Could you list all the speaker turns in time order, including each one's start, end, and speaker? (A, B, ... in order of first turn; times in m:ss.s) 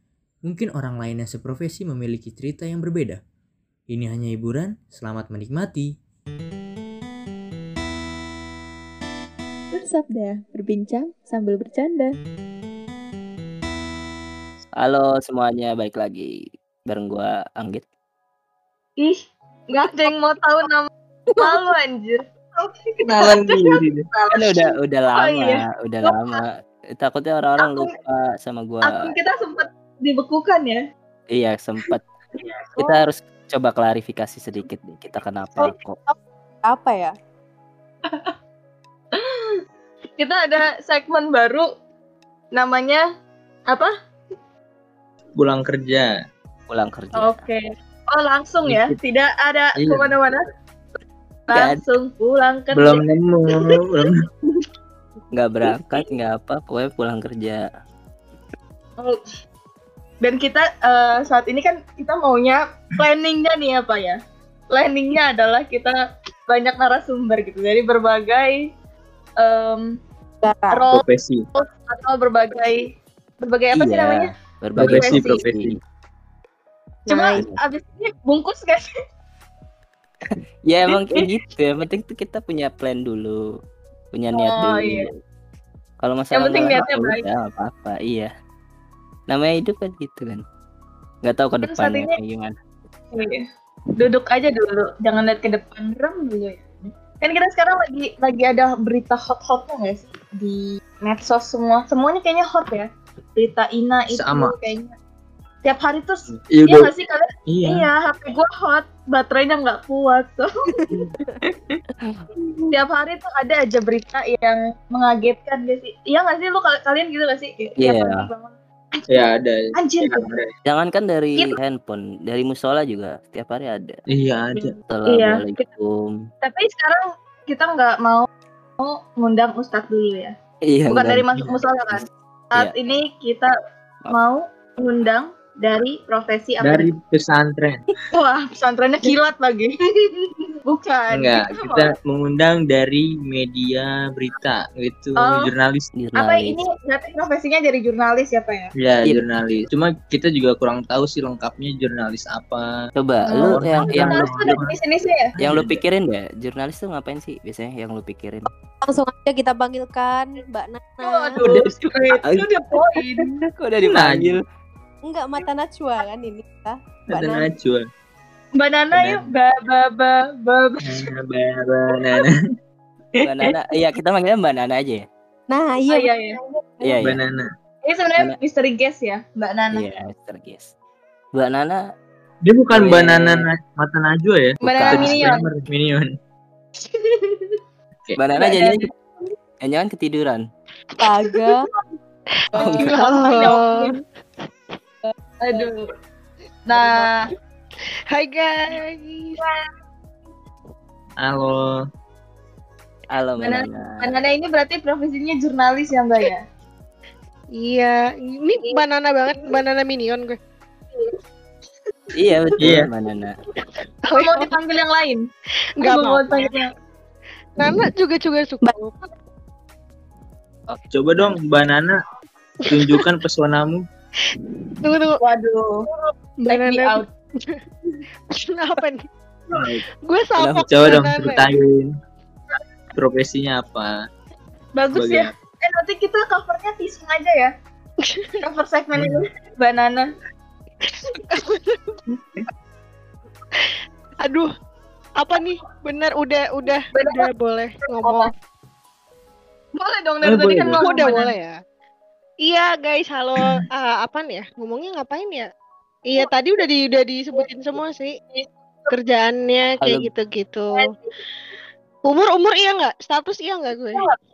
0:00.4-0:03.2 A
0:03.9-0:05.9 A
0:09.8-0:12.1 B
0:14.8-0:16.3 C
0:16.8-0:17.8 C
0:19.7-0:26.3 B
0:23.0-0:24.0 D
0:24.3-0:29.1 C
0:27.6-0:27.9 B
0:28.8-0:30.8 B
0:31.3-0:32.0 C
0:32.4-0:33.0 B
0:32.8-0:36.0 C
0:35.6-0:37.1 E
0:40.2-0:41.7 B
0:42.5-0:43.0 B
0:45.4-0:46.1 D
0:46.7-0:47.4 C
0:47.1-0:50.4 B
0:48.6-0:49.0 D
0:49.8-0:50.1 D
0:51.5-0:53.0 B
0:51.5-0:51.8 C
0:52.7-0:54.2 D
0:55.3-0:57.6 C
1:00.2-1:04.2 B
1:04.7-1:05.9 B
1:06.5-1:08.6 B
1:09.4-1:09.9 B
1:10.4-1:10.8 E
1:10.7-1:11.0 B
1:10.9-1:11.4 D
1:11.6-1:14.3 B
1:13.7-1:15.7 C
1:14.8-1:15.7 D
1:14.8-1:15.4 B
1:17.1-1:17.4 E
1:17.1-1:18.9 B
1:17.3-1:17.6 C
1:20.3-1:23.4 C
1:20.9-1:21.3 B
1:24.1-1:25.1 C
1:24.4-1:25.1 B
1:26.0-1:28.3 C
1:26.3-1:27.2 B
1:29.3-1:30.4 C
1:31.2-1:32.5 C
1:31.6-1:32.2 B
1:33.1-1:33.4 B
1:34.0-1:44.9 B
1:44.1-1:44.5 D
1:45.6-1:50.5 B
1:46.3-1:46.9 D
1:47.5-1:47.9 D
1:52.7-1:59.0 B
1:57.8-1:58.3 C
1:59.1-2:00.4 D
1:59.8-2:00.3 B
2:00.6-2:03.9 C
2:04.1-2:04.8 D
2:04.9-2:06.1 C
2:05.1-2:05.6 B
2:06.4-2:08.3 B
2:08.8-2:10.3 B
2:10.7-2:11.3 C
2:10.9-2:13.5 B
2:11.9-2:12.7 C
2:14.1-2:16.9 B
2:16.6-2:17.8 D
2:18.1-2:21.9 B
2:21.1-2:25.9 D
2:25.2-2:25.5 B
2:25.9-2:26.6 C
2:26.1-2:28.7 B
2:28.8-2:32.7 D
2:29.0-2:29.7 C
2:33.0-2:34.6 C
2:33.3-2:35.3 B
2:33.5-2:34.7 D
2:35.4-2:35.8 D
2:35.4-2:38.5 C
2:38.8-2:41.5 E
2:41.0-2:43.3 B
2:41.4-2:42.6 C
2:43.4-2:44.4 C
2:43.9-2:44.4 D
2:45.0-2:47.5 E
2:47.1-2:47.8 D
2:48.6-2:51.0 B
2:48.9-2:49.2 D
2:50.8-2:52.3 D
2:53.2-2:55.0 C
2:55.5-2:57.1 E
2:55.9-2:56.4 B
2:56.8-2:57.2 C
2:57.0-2:57.5 D
2:57.8-2:59.9 B
2:59.7-3:00.7 C
3:01.3-3:01.8 C
3:02.4-3:06.1 D
3:02.7-3:03.4 C
3:04.6-3:05.3 C
3:04.6-3:05.4 B
3:06.9-3:07.5 B
3:08.2-3:08.9 C
3:08.3-3:09.3 B
3:09.6-3:10.4 C
3:11.0-3:11.6 E
3:12.6-3:12.9 C
3:12.6-3:14.0 B
3:12.9-3:13.9 F
3:15.4-3:15.8 B
3:16.7-3:17.1 B
3:16.7-3:17.0 F
3:18.1-3:19.4 F
3:21.2-3:21.7 D
3:23.1-3:24.2 C
3:23.4-3:26.4 B
3:27.6-3:30.4 F
3:32.1-3:33.3 C
3:32.6-3:32.9 D
3:34.0-3:34.5 F
3:34.1-3:35.3 B
3:35.8-3:36.5 F
3:35.8-3:36.7 B
3:37.6-3:39.1 F
3:40.7-3:41.4 C
3:40.9-3:41.9 D
3:42.7-3:43.8 D
3:44.8-3:45.2 F
3:45.2-3:45.8 B
3:46.4-3:47.6 F
3:46.5-3:47.0 B
3:48.4-3:49.0 F
3:49.5-3:49.8 D
3:50.0-3:51.4 F
3:50.4-3:50.8 C
3:50.7-3:51.9 D
3:53.0-3:53.9 D
3:54.8-3:57.5 B
3:54.9-3:55.3 D
3:58.0-3:58.4 F
3:58.4-4:00.1 B
4:01.3-4:02.0 F
4:05.2-4:08.3 F
4:06.9-4:07.3 B
4:08.0-4:08.3 B
4:09.8-4:11.3 B
4:10.2-4:10.8 D
4:10.8-4:11.5 F
4:12.4-4:15.4 F
4:16.1-4:18.1 F
4:18.3-4:18.9 B
4:18.9-4:20.8 F
4:19.8-4:20.1 C
4:20.8-4:21.2 B
4:22.1-4:24.0 F